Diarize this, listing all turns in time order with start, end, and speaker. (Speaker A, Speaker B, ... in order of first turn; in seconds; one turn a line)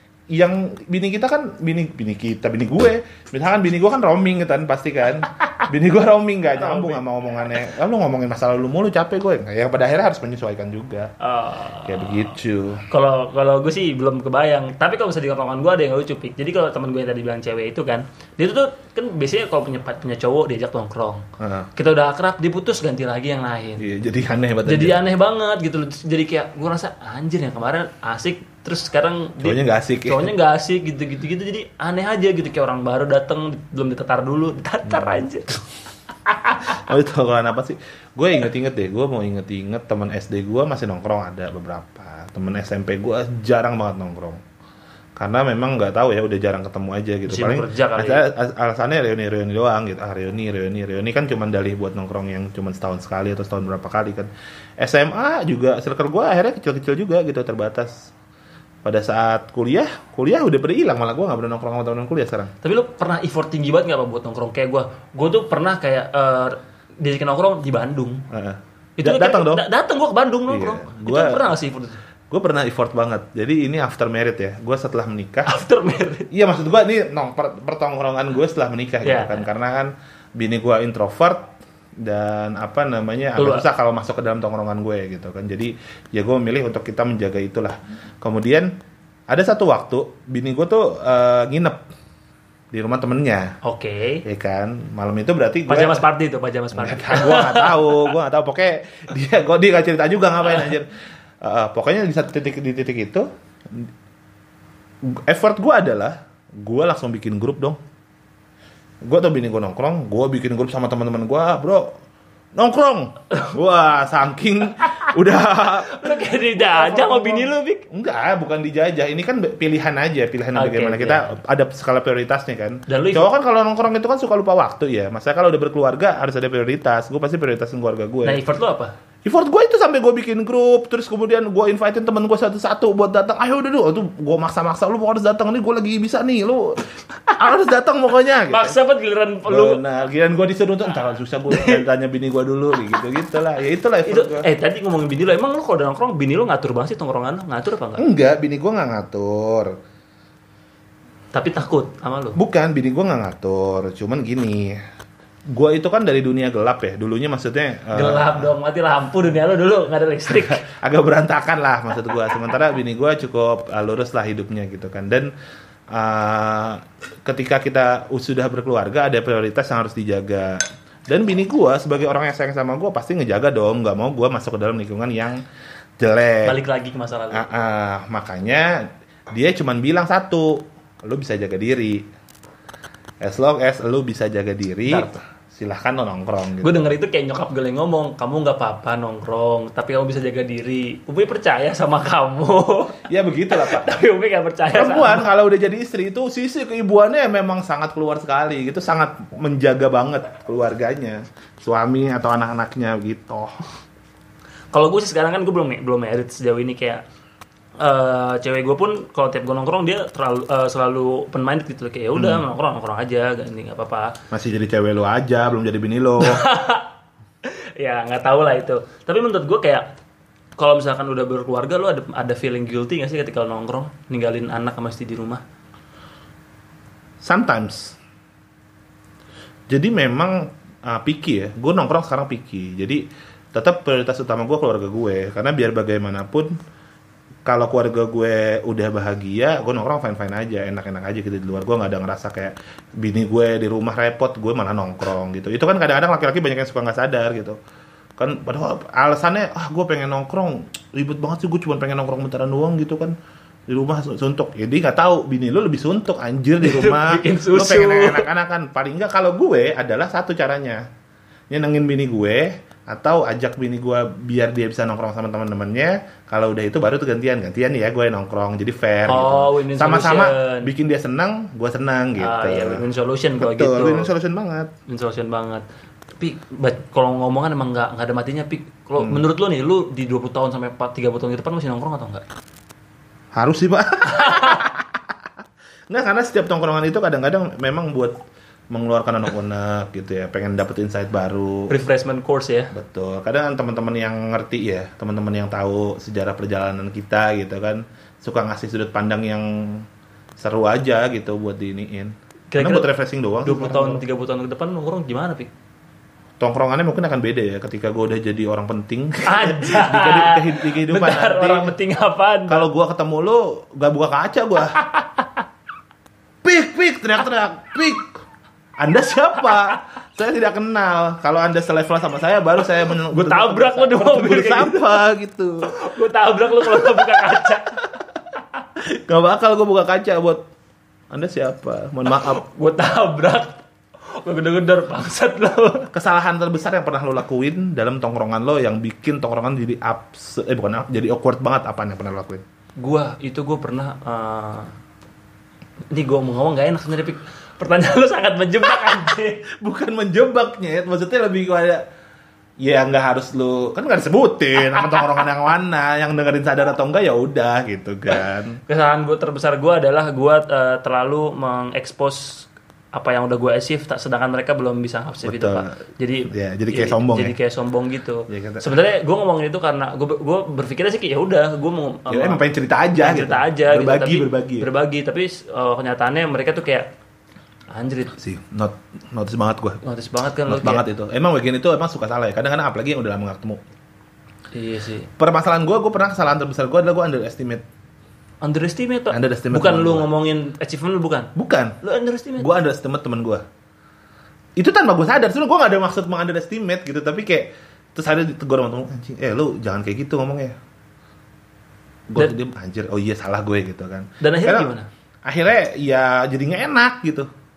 Speaker A: 0.3-11.1
Speaker B: 6.5-7.5
Speaker B: 11.2-12.2
Speaker A: 11.8-12.8
Speaker B: 12.9-23.9
Speaker A: 21.4-21.7
Speaker A: 23.8-25.0
Speaker B: 24.6-35.6
Speaker A: 29.4-30.3
Speaker B: 36.3-36.8
Speaker A: 36.7-44.4
Speaker A: 45.2-58.1
Speaker B: 47.3-48.3
Speaker A: 58.8-62.5
Speaker B: 62.6-68.3
Speaker A: 68.3-69.7
Speaker B: 69.0-72.0
Speaker A: 70.5-71.5
Speaker A: 72.3-75.5
Speaker B: 75.5-76.3
Speaker A: 76.3-81.5
Speaker B: 79.0-79.5
Speaker A: 82.0-88.7
Speaker B: 83.4-83.7
Speaker A: 89.3-91.8
Speaker A: 92.7-93.5
Speaker B: 93.6-94.2
Speaker A: 94.2-96.0
Speaker B: 95.7-98.0
Speaker A: 96.7-100.9
Speaker A: 101.4-103.9
Speaker A: 105.1-107.8
Speaker A: 109.0-111.9
Speaker A: 112.6-128.4
Speaker B: 115.9-117.8
Speaker B: 120.5-121.2
Speaker B: 122.9-123.3
Speaker B: 128.2-128.9
Speaker A: 129.2-136.8
Speaker A: 137.4-138.8
Speaker B: 138.5-139.8
Speaker A: 139.5-144.5
Speaker B: 141.5-141.9
Speaker B: 144.1-148.0
Speaker A: 148.0-149.7
Speaker B: 151.3-152.4
Speaker A: 152.4-154.8
Speaker A: 155.5-158.5
Speaker B: 157.9-160.6
Speaker A: 160.3-165.3
Speaker A: 165.9-175.4
Speaker A: 176.0-176.6
Speaker B: 176.4-177.5
Speaker A: 177.3-182.0
Speaker A: 183.2-186.9
Speaker B: 186.6-195.3
Speaker A: 193.1-194.0
Speaker A: 194.7-203.6
Speaker B: 204.7-207.0
Speaker B: 207.8-214.1
Speaker A: 212.1-212.4
Speaker A: 214.3-216.5
Speaker B: 216.2-216.9
Speaker B: 217.5-219.9
Speaker B: 220.6-225.4
Speaker A: 227.2-228.0
Speaker A: 229.7-233.0
Speaker A: 233.5-236.5
Speaker A: 237.5-247.6
Speaker A: 248.2-253.2
Speaker A: 253.7-260.8
Speaker B: 256.6-258.3
Speaker A: 261.5-272.8
Speaker B: 269.1-270.7
Speaker B: 272.2-274.1
Speaker A: 273.4-274.7
Speaker B: 274.9-275.6
Speaker B: 276.2-282.2
Speaker A: 283.4-285.0
Speaker B: 284.1-284.6
Speaker A: 285.9-288.2
Speaker A: 288.7-291.7
Speaker B: 291.7-292.7
Speaker A: 292.7-299.9
Speaker A: 300.4-304.0
Speaker B: 302.5-302.9
Speaker B: 303.4-305.5
Speaker A: 306.4-311.7
Speaker B: 309.3-312.6
Speaker A: 312.5-314.8
Speaker B: 314.8-315.3
Speaker A: 316.4-318.1
Speaker A: 318.8-325.7
Speaker B: 319.5-319.8
Speaker B: 322.9-324.9
Speaker B: 325.7-327.8
Speaker A: 326.6-327.6
Speaker A: 328.9-330.4
Speaker A: 331.1-332.4
Speaker B: 332.1-333.6
Speaker B: 334.2-335.9
Speaker A: 335.9-342.4
Speaker B: 342.8-344.7
Speaker B: 345.9-349.4
Speaker A: 349.5-351.8
Speaker A: 352.6-358.6
Speaker B: 358.7-372.4
Speaker A: 365.2-365.7
Speaker A: 366.3-367.4
Speaker A: 368.3-368.8
Speaker A: 372.1-374.7
Speaker B: 372.9-376.9
Speaker B: 377.7-378.1
Speaker A: 378.2-379.8
Speaker B: 379.8-380.9
Speaker A: 380.5-383.6
Speaker B: 384.5-385.1
Speaker A: 385.2-387.6
Speaker B: 388.4-391.3
Speaker A: 389.1-390.1
Speaker A: 391.4-391.8
Speaker B: 391.8-392.5
Speaker A: 392.4-393.4
Speaker A: 394.6-400.6
Speaker A: 402.1-404.7
Speaker B: 404.2-404.9
Speaker A: 405.2-407.3